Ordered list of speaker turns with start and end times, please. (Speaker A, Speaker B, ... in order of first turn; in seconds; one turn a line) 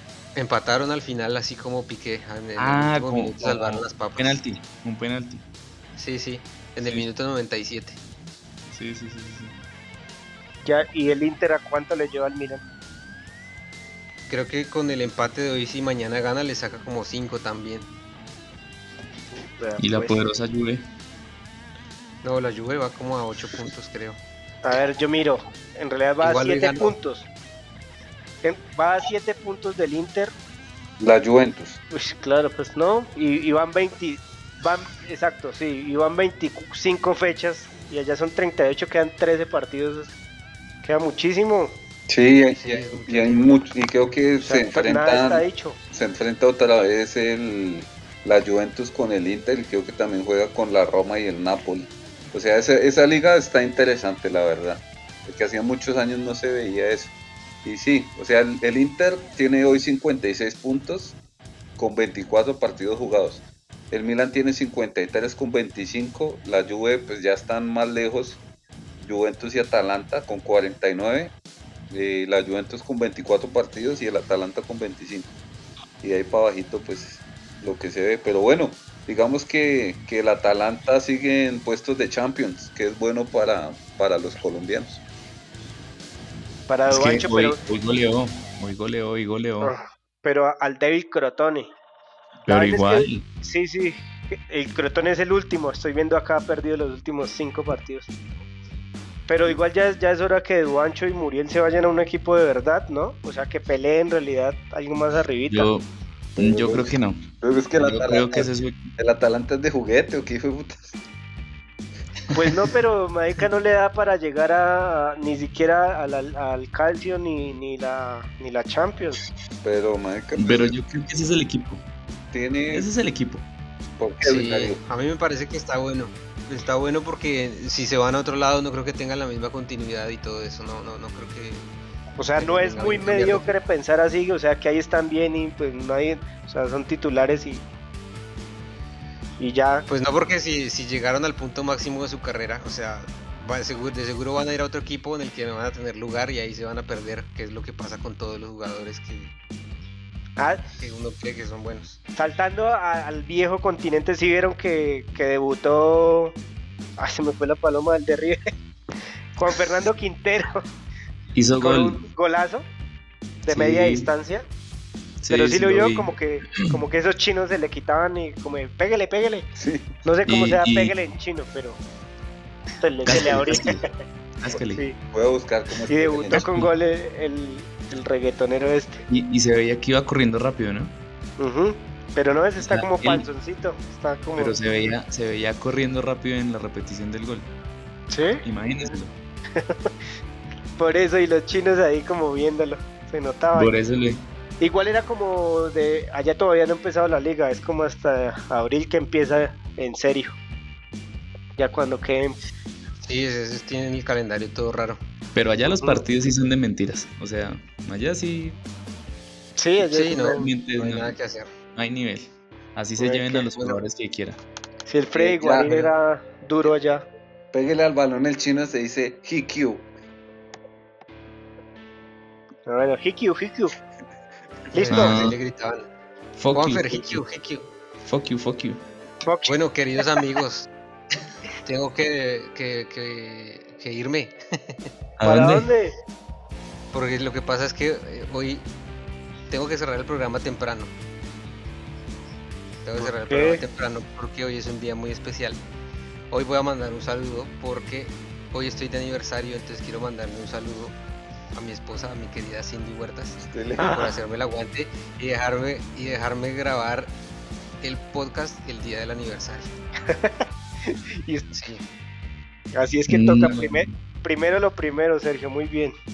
Speaker A: 0.4-4.4
Speaker B: 2.6-5.4
Speaker A: 6.0-8.0
Speaker B: 6.8-7.1
Speaker B: 8.7-9.6
Speaker C: 10.7-12.6
Speaker A: 14.3-17.9
Speaker C: 19.6-20.2
Speaker B: 19.8-20.9
Speaker A: 22.2-24.2
Speaker C: 24.6-27.3
Speaker A: 26.2-26.9
Speaker C: 28.4-30.3
Speaker D: 31.0-31.8
Speaker C: 31.9-40.1
Speaker C: 40.8-41.8
Speaker D: 42.1-57.1
Speaker A: 42.5-43.5
Speaker C: 44.4-45.8
Speaker D: 57.6-61.2
Speaker D: 61.8-68.4
Speaker D: 69.0-71.3
Speaker D: 71.9-75.3
Speaker D: 76.0-85.0
Speaker C: 86.7-87.6
Speaker B: 86.9-89.7
Speaker C: 89.6-91.7
Speaker B: 92.5-93.2
Speaker C: 92.5-98.1
Speaker C: 99.3-105.7
Speaker B: 105.5-107.2
Speaker D: 106.4-111.0
Speaker B: 107.8-108.9
Speaker C: 112.3-119.2
Speaker D: 119.6-120.8
Speaker B: 120.4-121.8
Speaker D: 122.3-122.9
Speaker B: 122.7-123.4
Speaker D: 124.0-124.8
Speaker A: 124.2-131.7
Speaker C: 132.2-137.7
Speaker A: 132.4-133.5
Speaker C: 139.4-139.9
Speaker A: 139.9-149.4
Speaker C: 150.4-150.6
Speaker A: 150.8-152.0
Speaker C: 152.2-156.4
Speaker C: 157.0-158.4
Speaker C: 159.4-160.6
Speaker B: 161.3-162.0
Speaker C: 161.6-162.7
Speaker C: 163.4-164.5
Speaker B: 163.5-164.1
Speaker B: 165.2-166.7
Speaker C: 165.3-169.5
Speaker D: 169.6-169.9
Speaker C: 170.1-171.8
Speaker B: 170.3-170.9
Speaker C: 172.8-173.8
Speaker B: 173.0-173.8
Speaker B: 174.4-174.8
Speaker D: 175.1-176.4
Speaker C: 175.9-179.1
Speaker B: 176.3-176.7
Speaker B: 179.1-180.9
Speaker C: 181.4-184.6
Speaker B: 182.6-183.3
Speaker B: 184.4-187.5
Speaker C: 188.1-188.4
Speaker B: 188.4-189.1
Speaker C: 189.6-189.9
Speaker C: 190.8-193.7
Speaker B: 193.5-194.2
Speaker C: 194.6-200.4
Speaker C: 201.6-202.4
Speaker A: 203.0-205.0
Speaker B: 205.3-208.6
Speaker C: 205.7-206.0
Speaker C: 209.6-210.5
Speaker A: 209.8-211.5
Speaker B: 210.3-211.2
Speaker B: 211.8-214.4
Speaker C: 213.0-213.8
Speaker C: 214.9-217.1
Speaker D: 215.2-215.9
Speaker D: 217.5-219.9
Speaker C: 222.7-223.8
Speaker C: 224.7-225.2
Speaker A: 224.8-225.9
Speaker B: 224.9-225.4
Speaker B: 226.4-227.2
Speaker A: 226.5-227.7
Speaker B: 228.0-228.8
Speaker C: 229.2-229.6
Speaker A: 229.5-230.7
Speaker A: 231.6-234.8
Speaker B: 235.2-235.7
Speaker C: 235.2-235.9
Speaker A: 236.9-238.7
Speaker A: 239.5-240.9
Speaker A: 242.8-245.6
Speaker C: 243.0-243.6
Speaker A: 246.3-251.0
Speaker A: 251.5-257.1
Speaker D: 253.4-253.9
Speaker A: 257.8-259.7
Speaker C: 260.1-261.5
Speaker A: 261.5-261.8
Speaker C: 262.7-265.9
Speaker B: 263.1-263.9